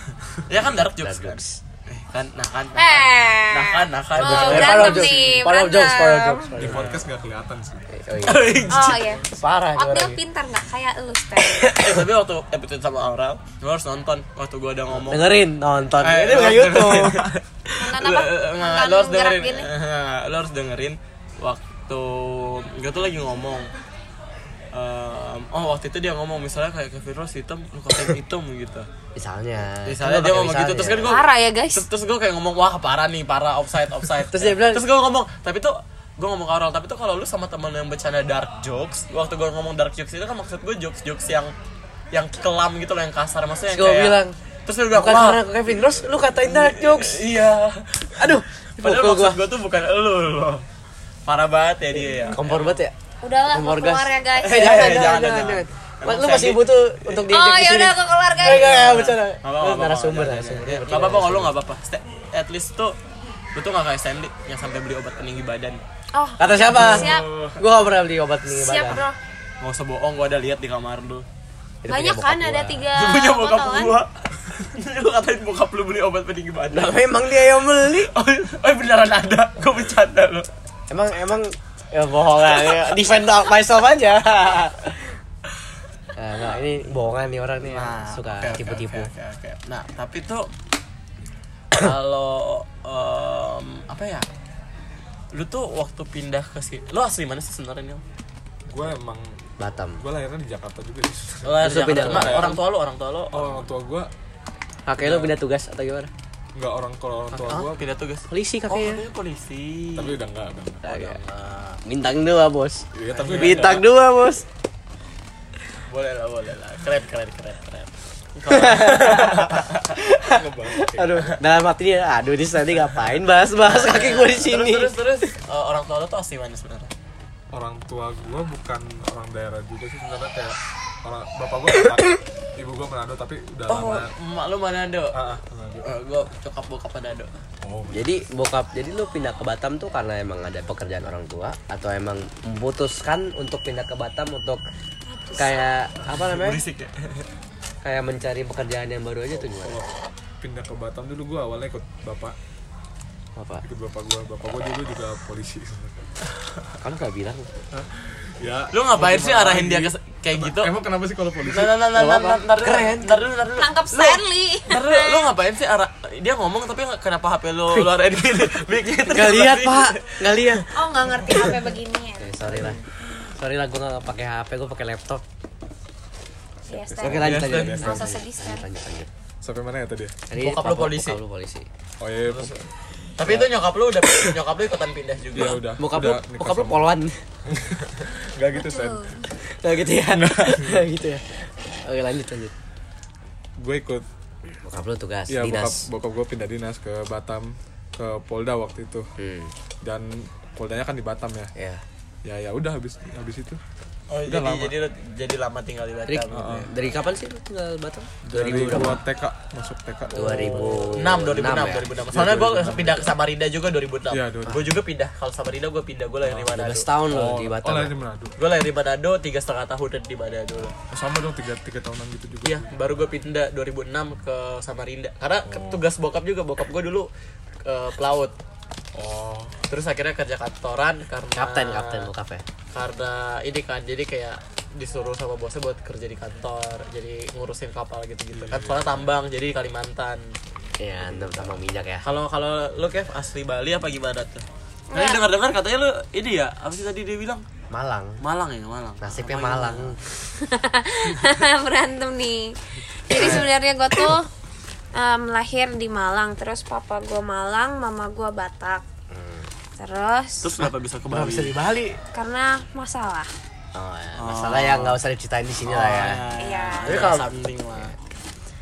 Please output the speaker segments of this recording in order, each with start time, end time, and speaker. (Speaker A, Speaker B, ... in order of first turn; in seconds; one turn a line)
Speaker A: 0.3-5.4
Speaker B: 0.7-1.6
Speaker C: 2.8-6.5
Speaker B: 4.2-7.0
Speaker D: 6.5-7.9
Speaker A: 6.7-7.0
Speaker B: 7.9-8.6
Speaker A: 8.2-9.2
Speaker C: 8.7-11.7
Speaker B: 9.3-10.2
Speaker B: 11.6-12.1
Speaker A: 11.7-15.4
Speaker B: 14.9-17.3
Speaker A: 16.0-17.4
Speaker C: 17.8-19.7
Speaker A: 17.9-23.7
Speaker A: 24.7-28.9
Speaker B: 29.2-31.2
Speaker A: 29.9-41.5
Speaker C: 31.1-31.9
Speaker B: 34.3-34.9
Speaker A: 42.1-45.5
Speaker B: 43.7-44.4
Speaker B: 44.9-47.3
Speaker A: 46.3-50.6
Speaker B: 48.2-49.4
Speaker A: 51.3-52.8
Speaker B: 52.0-52.9
Speaker C: 53.2-55.1
Speaker B: 53.5-61.5
Speaker A: 54.4-57.3
Speaker C: 57.3-58.8
Speaker A: 58.4-63.0
Speaker A: 63.5-65.8
Speaker C: 66.1-67.3
Speaker B: 66.4-69.0
Speaker D: 66.7-67.5
Speaker A: 66.8-67.4
Speaker C: 68.5-69.2
Speaker A: 69.6-71.3
Speaker B: 71.8-72.8
Speaker C: 71.9-74.0
Speaker A: 73.0-77.1
Speaker B: 76.7-78.1
Speaker A: 77.8-80.5
Speaker B: 80.9-85.1
Speaker B: 86.2-89.1
Speaker A: 87.7-90.5
Speaker A: 91.7-94.3
Speaker A: 95.3-98.0
Speaker D: 98.7-99.4
Speaker B: 99.6-100.0
Speaker D: 100.0-102.6
Speaker A: 101.4-103.7
Speaker B: 101.6-102.6
Speaker D: 103.3-104.1
Speaker B: 104.9-106.1
Speaker D: 105.0-105.3
Speaker D: 106.5-107.8
Speaker A: 107.3-110.2
Speaker B: 108.3-109.0
Speaker D: 110.0-111.3
Speaker B: 110.8-114.5
Speaker D: 112.9-113.8
Speaker A: 113.1-113.8
Speaker A: 115.9-119.9
Speaker B: 118.5-125.3
Speaker D: 120.3-121.3
Speaker A: 123.6-126.9
Speaker D: 127.5-134.1
Speaker A: 133.7-135.2
Speaker D: 135.1-135.9
Speaker A: 135.8-137.3
Speaker D: 137.6-138.2
Speaker B: 137.9-144.6
Speaker C: 145.1-145.7
Speaker B: 145.4-146.6
Speaker A: 146.1-147.3
Speaker B: 147.8-149.8
Speaker D: 149.4-149.9
Speaker D: 150.4-152.4
Speaker B: 153.4-153.7
Speaker D: 153.6-156.0
Speaker B: 156.8-157.5
Speaker D: 157.7-161.8
Speaker A: 158.7-160.7
Speaker A: 161.5-170.6
Speaker B: 161.9-163.2
Speaker C: 163.6-165.3
Speaker B: 169.1-170.7
Speaker C: 170.7-172.5
Speaker B: 172.2-172.8
Speaker D: 172.5-172.8
Speaker B: 173.3-175.2
Speaker D: 176.7-178.1
Speaker C: 176.7-178.7
Speaker B: 177.0-179.1
Speaker A: 177.2-178.0
Speaker D: 179.4-180.2
Speaker B: 180.3-181.7
Speaker A: 180.4-181.2
Speaker D: 182.0-182.7
Speaker A: 182.3-182.6
Speaker A: 183.2-185.6
Speaker B: 183.2-183.5
Speaker B: 184.1-184.3
Speaker D: 185.3-186.8
Speaker B: 185.4-187.2
Speaker D: 187.5-189.2
Speaker C: 188.6-189.3
Speaker B: 189.4-192.5
Speaker D: 190.1-190.8
Speaker D: 193.6-194.1
Speaker B: 194.6-195.9
Speaker D: 195.3-199.1
Speaker B: 199.2-199.5
Speaker D: 199.8-201.5
Speaker B: 201.6-201.8
Speaker D: 202.2-203.6
Speaker A: 204.1-206.7
Speaker D: 204.3-204.8
Speaker B: 206.1-209.0
Speaker D: 206.3-206.7
Speaker D: 208.2-211.1
Speaker B: 210.1-211.9
Speaker A: 210.2-216.9
Speaker D: 212.1-213.2
Speaker D: 214.1-214.7
Speaker B: 216.5-217.9
Speaker D: 217.1-218.4
Speaker A: 218.4-220.8
Speaker D: 220.9-222.7
Speaker A: 222.4-227.1
Speaker D: 225.5-225.8
Speaker A: 227.7-228.3
Speaker D: 228.9-229.6
Speaker A: 229.7-232.1
Speaker B: 231.3-232.4
Speaker A: 232.7-240.3
Speaker D: 238.3-239.1
Speaker B: 240.8-242.0
Speaker A: 242.0-247.4
Speaker C: 244.9-245.2
Speaker B: 247.7-248.2
Speaker A: 248.2-250.0
Speaker B: 249.0-250.0
Speaker C: 250.4-252.6
Speaker C: 253.1-254.3
Speaker A: 253.1-253.5
Speaker B: 253.2-253.4
Speaker C: 254.9-258.8
Speaker B: 259.1-259.5
Speaker C: 259.8-260.6
Speaker A: 260.4-261.6
Speaker B: 260.6-262.0
Speaker C: 262.1-263.3
Speaker B: 263.8-266.2
Speaker A: 264.2-265.0
Speaker A: 265.6-267.9
Speaker C: 266.4-267.2
Speaker B: 266.9-267.3